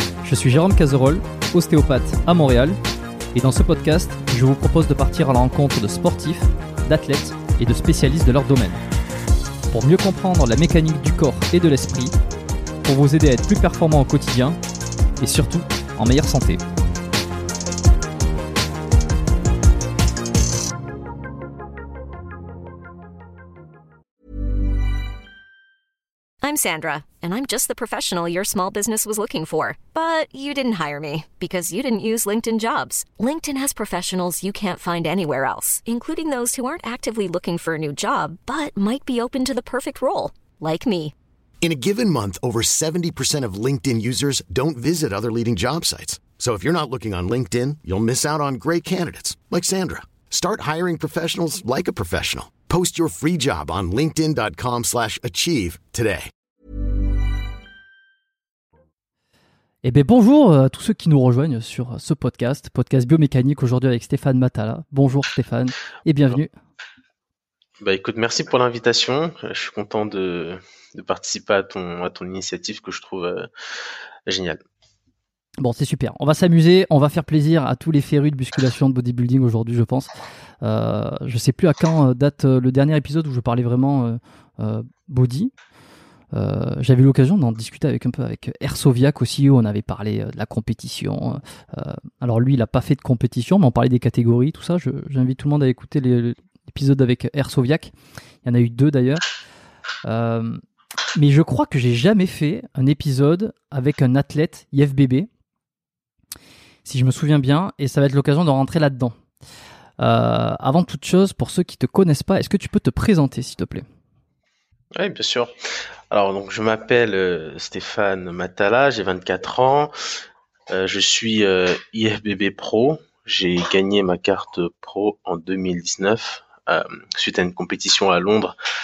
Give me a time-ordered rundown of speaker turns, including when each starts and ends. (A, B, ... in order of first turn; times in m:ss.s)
0:00.2-0:02.8 A
0:03.3-0:08.8 A
0:09.7-0:12.1 A
0:12.8-0:14.6 A
0:15.2-0:16.6 A
0:26.4-0:41.1 B
0:41.6-0:56.3 C
0:59.8-1:06.5 A
1:07.8-1:13.5 D
1:14.3-1:14.6 D
1:15.6-1:25.5 A
1:26.3-1:39.2 A
1:40.0-1:40.6 A
1:41.1-1:45.3 A
1:46.8-1:49.1 A
1:50.0-1:53.8 A
1:54.9-1:55.5 D
1:56.1-1:59.9 D
2:00.7-2:08.5 D